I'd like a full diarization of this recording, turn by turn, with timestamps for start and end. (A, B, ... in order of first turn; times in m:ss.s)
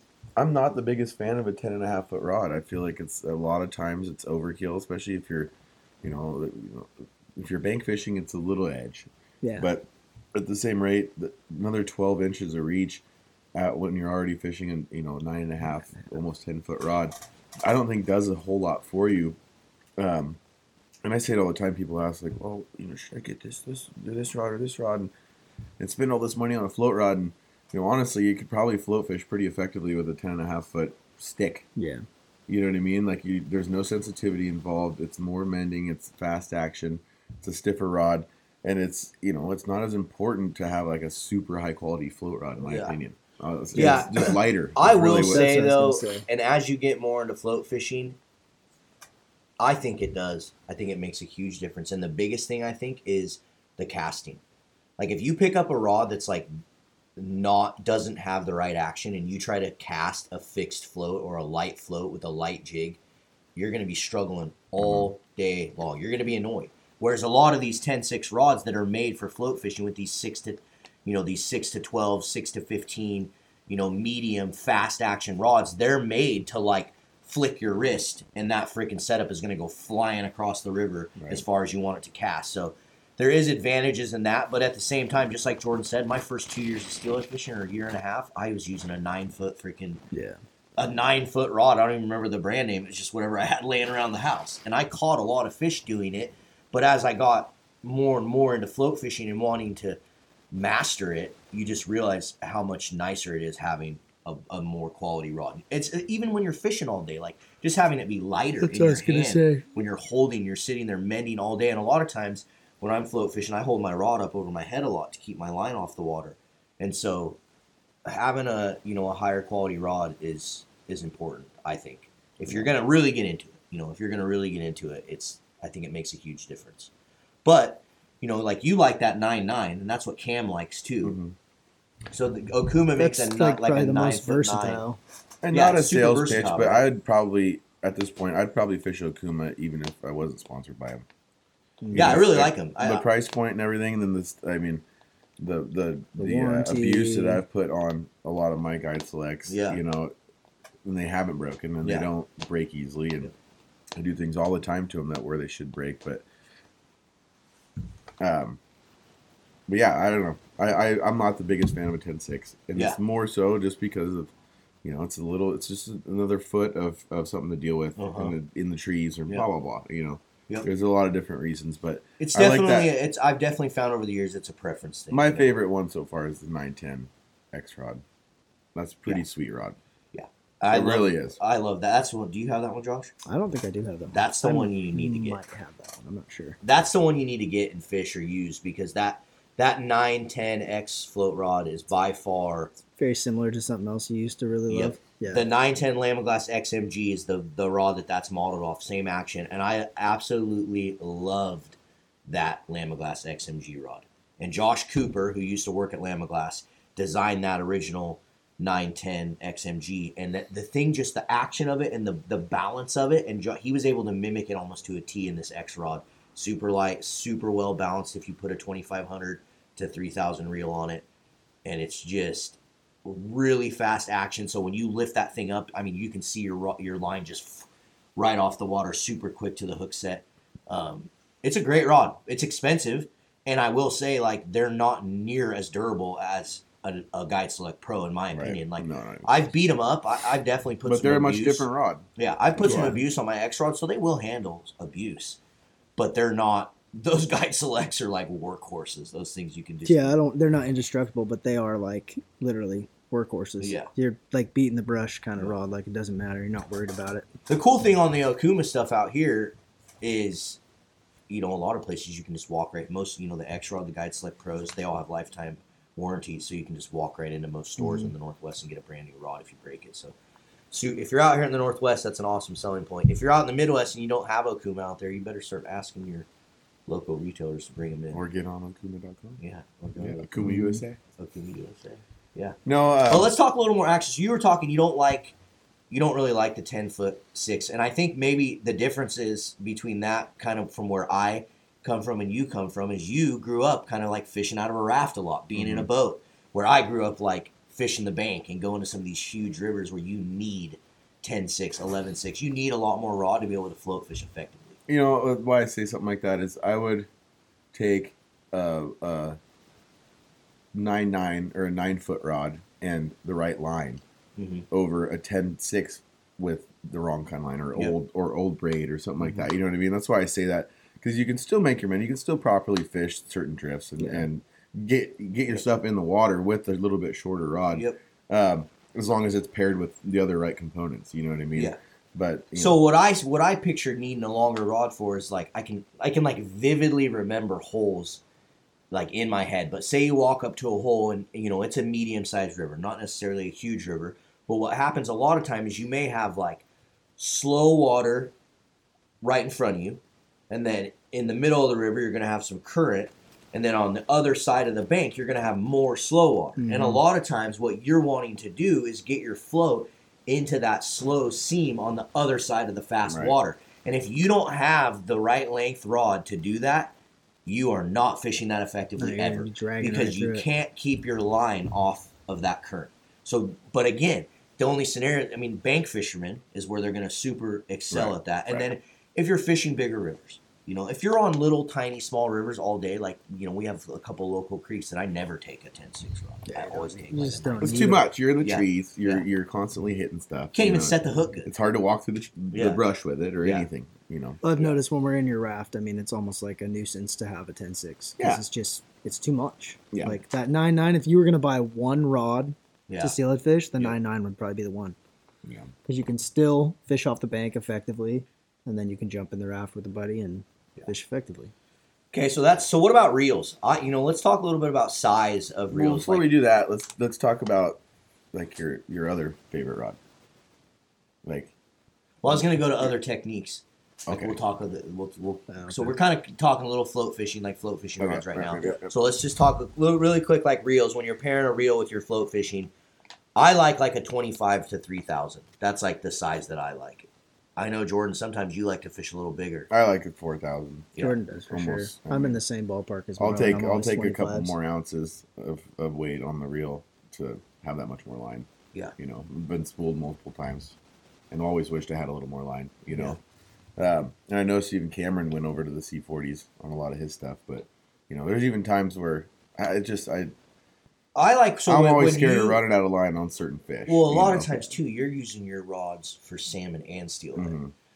0:00.4-0:13.0 A
0:09.4-0:09.7 B
0:13.6-0:19.4 A
0:20.0-0:20.4 A
0:21.0-0:25.1 A
0:25.8-0:31.7 A
0:31.8-0:32.0 B
0:32.5-0:45.5 A
0:42.6-0:43.0 C
0:43.8-0:48.2 C
0:43.8-0:44.2 B
0:45.0-0:46.2 B
0:49.6-0:54.4 C
0:55.0-0:56.5 C
0:57.2-1:03.0 C
1:03.6-1:30.0 C
1:04.8-1:05.1 A
1:21.2-1:21.4 A
1:30.1-1:30.4 B
1:30.8-1:40.0 C
1:40.5-1:57.4 C
1:48.6-1:49.6 B
1:58.1-2:06.9 C
2:02.4-2:02.7 A
2:07.4-2:11.2 C
2:11.0-2:11.3 A
2:12.1-2:14.8 C
2:13.0-2:15.0 B
2:15.4-2:21.1 A
2:15.5-2:16.8 C
2:21.8-2:22.2 B
2:21.9-2:23.0 C
2:21.9-2:24.8 A
2:25.4-2:30.1 A
2:26.2-2:27.4 B
2:29.5-2:29.8 C
2:30.8-2:33.3 A
2:31.8-2:32.1 C
2:34.0-2:36.2 A
2:38.2-2:38.6 A
2:39.7-2:44.3 A
2:44.8-2:52.9 A
2:48.0-2:48.3 C
2:52.2-2:55.5 C
2:55.1-2:58.0 A
2:58.8-2:59.8 A
3:00.1-3:03.1 C
3:00.7-3:01.4 A
3:03.3-3:06.6 B
3:04.1-3:05.4 C
3:06.6-3:12.7 C
3:13.0-3:15.5 B
3:14.7-3:41.0 C
3:41.6-4:05.4 C
3:58.3-3:59.5 A
4:00.8-4:02.1 A
4:02.6-4:03.0 A
4:02.6-4:03.0 B
4:06.0-4:10.2 C
4:09.8-4:17.3 B
4:13.6-4:13.9 C
4:17.5-4:20.6 C
4:21.3-4:30.1 C
4:27.8-4:28.1 B
4:30.7-4:36.3 C
4:36.9-4:38.2 C
4:38.1-4:39.4 A
4:39.4-4:40.2 C
4:40.0-4:41.0 A
4:40.4-4:40.8 B
4:41.2-4:45.3 C
4:42.6-4:43.3 A
4:45.9-5:04.8 C
4:55.6-4:55.9 A
5:04.9-5:07.1 A
5:07.7-5:09.4 A
5:10.7-5:14.0 A
5:14.4-5:14.6 C
5:14.7-5:32.8 A
5:32.5-5:38.2 C
5:38.9-5:46.6 C
5:47.2-5:48.3 C
5:49.2-6:07.0 C
5:56.6-5:57.0 B
6:03.1-6:03.4 A
6:07.5-6:29.2 C
6:09.0-6:10.5 B
6:17.9-6:18.7 A
6:26.5-6:28.1 B
6:27.6-6:34.7 A
6:30.5-6:31.5 C
6:32.5-6:32.8 C
6:34.4-6:45.0 B
6:38.2-6:38.4 A
6:39.9-6:40.2 A
6:42.9-6:43.2 C
6:45.4-6:45.7 A
6:45.8-6:51.5 B
6:52.1-6:56.3 C
6:55.7-6:57.8 A
6:58.3-7:00.0 A
7:01.2-7:01.5 A
7:02.2-7:12.7 C
7:02.2-7:02.9 A
7:04.1-7:04.4 A
7:05.5-7:06.0 B
7:08.0-7:08.9 A
7:13.4-7:19.7 C
7:19.7-7:21.0 A
7:21.0-7:24.5 B
7:21.5-7:22.4 A
7:23.2-7:30.8 A
7:31.3-7:33.2 A
7:32.9-7:33.2 C
7:33.8-7:40.3 A
7:41.2-7:42.6 C
7:41.7-7:44.7 A
7:43.9-7:47.6 C
7:47.4-7:47.7 A